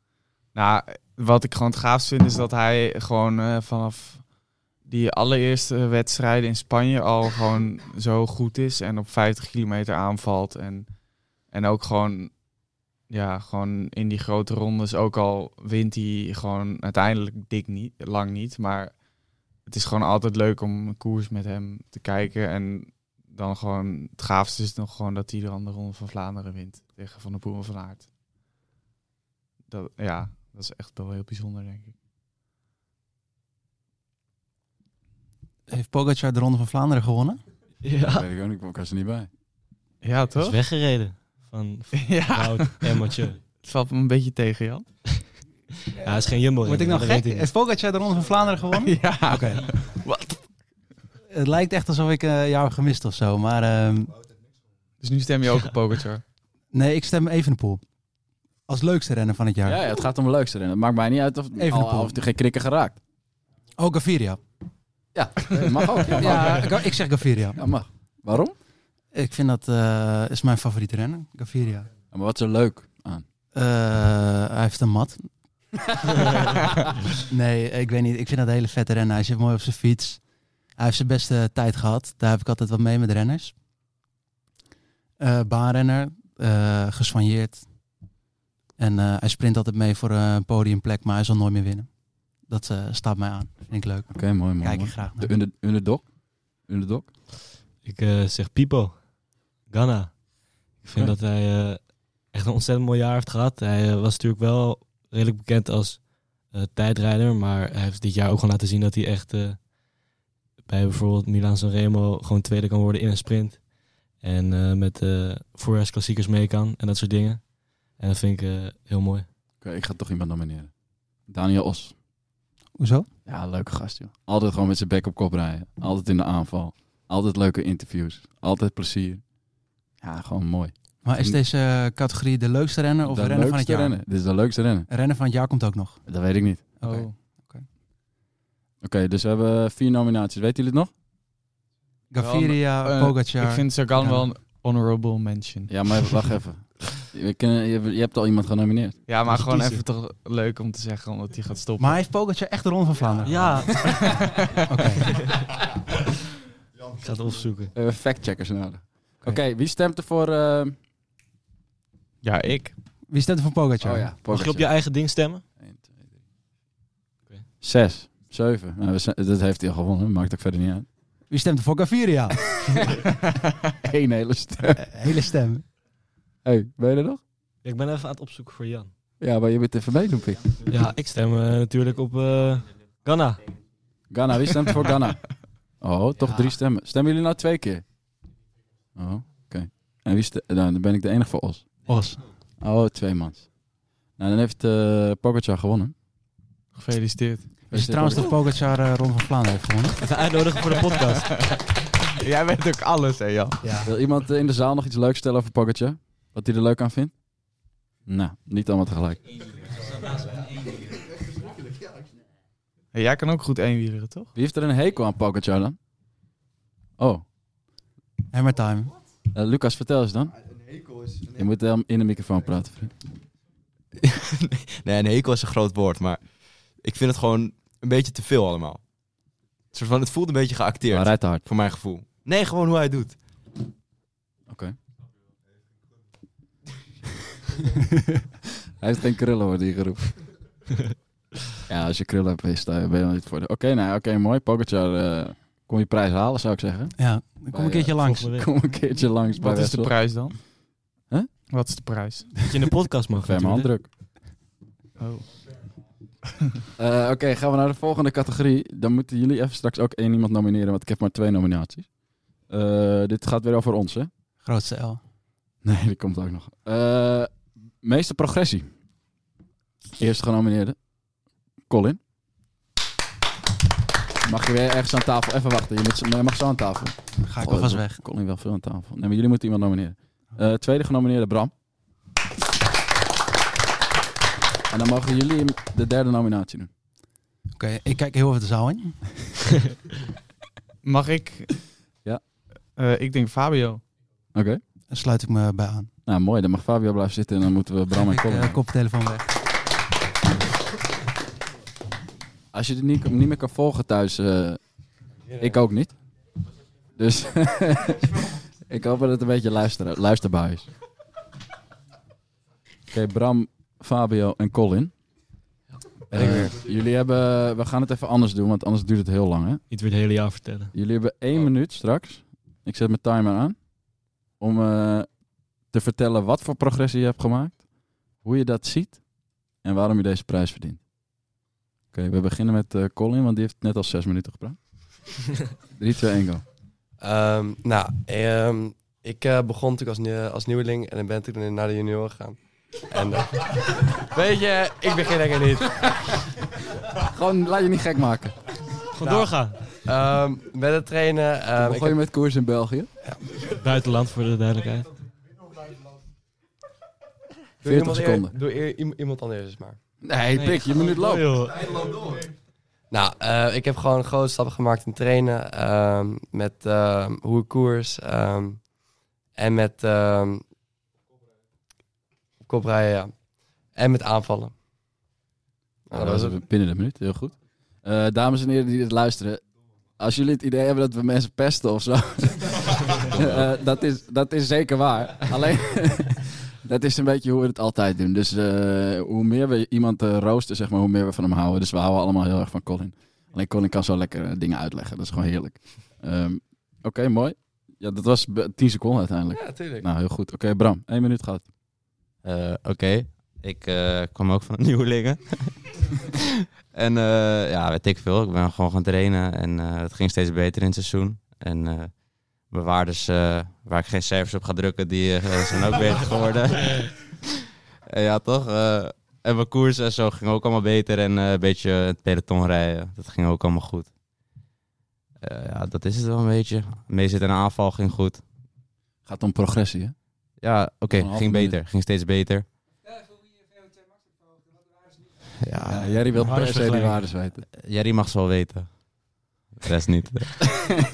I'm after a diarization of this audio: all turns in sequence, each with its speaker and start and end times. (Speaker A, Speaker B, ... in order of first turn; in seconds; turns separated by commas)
Speaker A: 0.5-12.4, Speaker A: 13.1-19.0, Speaker A: 19.6-28.1, Speaker A: 29.7-31.9, Speaker B: 35.7-37.4, Speaker A: 37.9-38.2, Speaker C: 38.0-39.3, Speaker A: 40.0-40.6, Speaker D: 40.4-43.4, Speaker A: 41.9-43.0, Speaker A: 43.6-45.3, Speaker D: 46.0-47.5, Speaker B: 46.6-49.7, Speaker A: 48.8-50.5, Speaker B: 51.3-54.1, Speaker A: 55.0-56.2, Speaker B: 56.7-58.0, Speaker B: 58.6-59.8, Speaker C: 59.6-63.0, Speaker B: 61.6-62.2, Speaker B: 63.8-64.4, Speaker C: 65.1-66.9, Speaker B: 66.1-67.6, Speaker C: 67.5-68.6, Speaker B: 69.1-71.9, Speaker C: 72.1-73.2, Speaker B: 73.5-83.6, Speaker B: 85.2-88.0, Speaker B: 88.8-95.3, Speaker C: 94.1-97.1, Speaker D: 97.5-109.7, Speaker D: 110.6-119.3, Speaker C: 119.6-122.0, Speaker B: 122.7-123.1, Speaker C: 123.2-129.4, Speaker C: 129.9-131.4, Speaker B: 131.0-134.0, Speaker C: 133.1-134.9, Speaker B: 134.9-136.1, Speaker C: 136.1-136.8, Speaker B: 136.8-137.6, Speaker A: 136.8-137.1, Speaker C: 138.8-140.9, Speaker B: 142.1-144.3, Speaker A: 142.2-146.2, Speaker C: 145.7-149.3, Speaker A: 149.1-152.0, Speaker B: 151.8-155.1, Speaker D: 153.2-154.6, Speaker A: 153.3-154.1, Speaker D: 157.0-157.7, Speaker C: 157.7-160.8, Speaker A: 162.2-162.7, Speaker B: 163.1-164.1, Speaker C: 163.8-164.9, Speaker D: 164.3-165.4, Speaker C: 165.6-166.2, Speaker C: 167.6-170.9, Speaker B: 171.3-172.6, Speaker C: 173.8-174.9, Speaker B: 174.9-175.7, Speaker C: 176.4-177.2, Speaker D: 177.6-178.9, Speaker C: 179.2-180.7, Speaker D: 180.7-183.5, Speaker C: 184.1-187.9, Speaker C: 188.9-191.7, Speaker B: 191.9-192.3, Speaker C: 192.6-195.9, Speaker A: 196.7-197.5, Speaker C: 197.7-198.3, Speaker B: 197.7-200.0, Speaker D: 200.1-201.5, Speaker A: 200.9-201.6, Speaker A: 202.1-203.6, Speaker B: 203.6-203.9, Speaker C: 203.8-209.4, Speaker A: 212.9-214.3, Speaker C: 214.3-215.8, Speaker C: 217.0-217.2, Speaker B: 218.3-218.9, Speaker C: 219.3-220.3, Speaker C: 221.3-222.9, Speaker E: 224.7-228.8, Speaker E: 229.7-233.2, Speaker C: 230.9-231.5, Speaker C: 234.5-234.8, Speaker C: 238.8-240.3, Speaker C: 241.7-250.2, Speaker B: 247.0-248.4, Speaker D: 248.0-248.4, Speaker A: 249.4-250.7, Speaker C: 251.1-251.3, Speaker A: 251.5-252.3, Speaker D: 252.5-253.7, Speaker C: 253.1-253.9, Speaker A: 255.0-255.6, Speaker C: 256.8-264.1, Speaker B: 264.4-265.0, Speaker C: 265.6-268.7, Speaker C: 270.0-270.9, Speaker C: 271.7-272.0, Speaker C: 274.2-281.5, Speaker B: 277.2-278.0, Speaker C: 284.7-286.7, Speaker B: 287.5-289.3, Speaker A: 290.8-291.7, Speaker A: 292.7-293.8, Speaker C: 294.3-294.6, Speaker B: 294.9-295.9, Speaker C: 296.1-298.6, Speaker B: 297.9-299.3, Speaker C: 302.5-306.0, Speaker F: 305.3-305.5, Speaker C: 306.9-310.7, Speaker C: 312.9-314.9, Speaker C: 316.1-319.6, Speaker E: 316.1-316.5, Speaker D: 319.7-320.7, Speaker C: 320.7-325.1, Speaker C: 325.6-330.8, Speaker C: 331.9-335.1, Speaker C: 335.8-336.4, Speaker F: 337.0-345.8, Speaker C: 346.9-348.5, Speaker D: 348.9-349.6, Speaker F: 349.0-352.0, Speaker C: 351.6-352.9, Speaker D: 353.4-354.9, Speaker F: 357.6-359.8, Speaker C: 357.6-358.3, Speaker C: 360.0-361.4, Speaker D: 360.3-361.6, Speaker F: 362.9-368.7, Speaker F: 369.3-370.4, Speaker F: 372.4-374.5, Speaker F: 375.9-376.4, Speaker C: 375.9-379.4, Speaker C: 380.0-401.5, Speaker F: 399.3-399.8, Speaker E: 402.2-405.5, Speaker E: 406.7-417.2, Speaker E: 417.9-423.9, Speaker E: 425.2-428.2, Speaker C: 429.0-429.9, Speaker E: 430.4-432.5, Speaker C: 430.9-431.6, Speaker E: 435.4-436.0, Speaker C: 435.6-437.4, Speaker B: 436.2-436.9, Speaker E: 437.5-438.8, Speaker E: 439.5-440.4